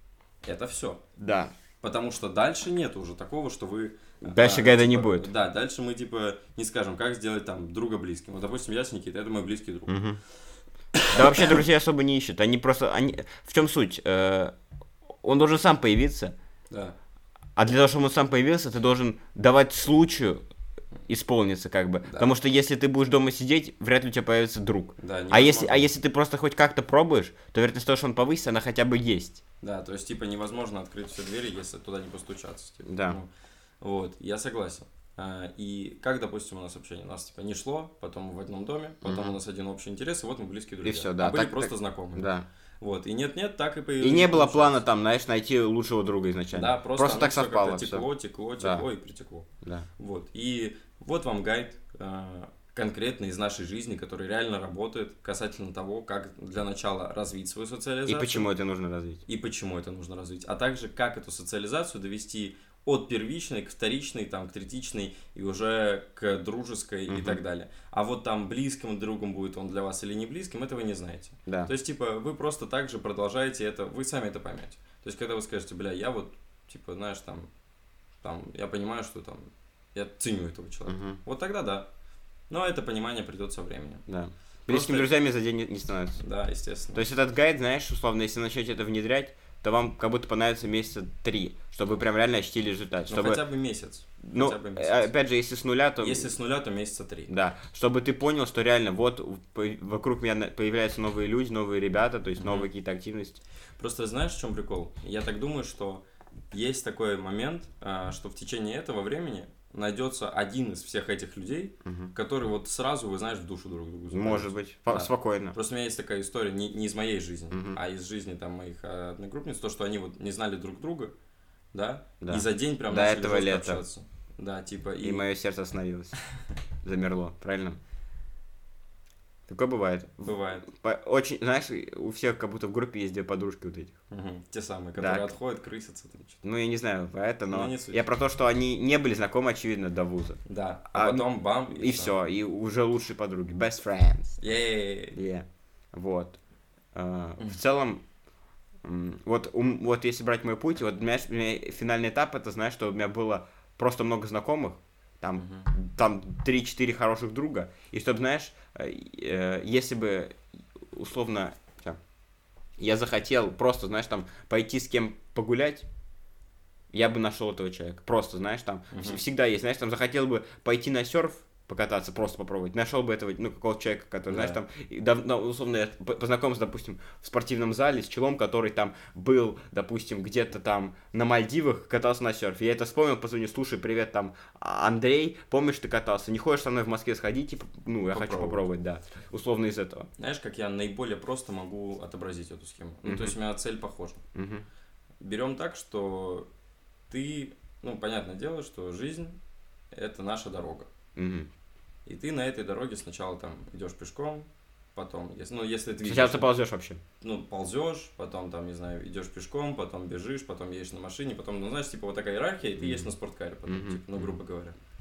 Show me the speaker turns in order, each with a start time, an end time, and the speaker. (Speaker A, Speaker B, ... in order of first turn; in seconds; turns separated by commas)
Speaker A: 0.4-1.0, Speaker B: 1.2-1.5, Speaker A: 1.8-9.9, Speaker B: 4.2-5.3, Speaker B: 9.9-10.2, Speaker A: 11.0-11.6, Speaker B: 11.1-14.5, Speaker B: 15.2-16.3, Speaker A: 16.7-16.9, Speaker B: 17.6-20.4, Speaker B: 21.1-29.4, Speaker A: 22.0-22.3, Speaker A: 25.0-25.9, Speaker A: 29.6-33.3, Speaker B: 32.8-33.2, Speaker A: 33.8-44.8, Speaker B: 39.0-39.4, Speaker B: 40.8-42.4, Speaker B: 44.0-48.1, Speaker A: 46.5-58.5, Speaker B: 48.6-48.9, Speaker B: 58.1-59.2, Speaker A: 59.3-77.5, Speaker B: 67.1-67.4, Speaker A: 78.2-81.9, Speaker B: 80.9-81.2, Speaker A: 82.5-84.0, Speaker B: 84.1-86.2, Speaker A: 84.7-85.1, Speaker A: 86.2-87.0, Speaker B: 86.9-93.4, Speaker A: 93.1-95.1, Speaker B: 94.2-96.3, Speaker A: 96.0-97.3, Speaker B: 97.3-103.4, Speaker A: 102.4-102.7, Speaker A: 103.8-121.1, Speaker B: 111.8-112.1, Speaker B: 114.1-115.5, Speaker B: 117.5-117.8, Speaker A: 121.7-125.2, Speaker B: 122.2-123.8, Speaker B: 125.0-126.2, Speaker B: 126.8-127.8, Speaker B: 129.5-133.9, Speaker A: 130.2-130.7, Speaker A: 134.1-136.4, Speaker B: 135.0-135.3, Speaker B: 136.4-140.4, Speaker A: 137.5-138.0, Speaker A: 140.4-142.1, Speaker B: 140.9-144.4, Speaker A: 144.4-145.2, Speaker B: 145.1-146.4, Speaker B: 146.9-148.0, Speaker B: 148.8-162.0, Speaker A: 155.4-155.7, Speaker B: 162.8-165.9, Speaker B: 166.9-190.1, Speaker A: 168.9-169.2, Speaker A: 174.3-174.6, Speaker A: 188.1-188.7, Speaker A: 190.2-194.2, Speaker B: 193.1-193.3, Speaker B: 194.3-194.6, Speaker A: 195.2-196.5, Speaker A: 197.1-199.4, Speaker A: 199.9-200.9, Speaker B: 201.2-201.5, Speaker A: 202.1-206.5, Speaker B: 206.0-207.0, Speaker A: 207.2-214.8, Speaker B: 212.8-213.1, Speaker B: 213.7-214.3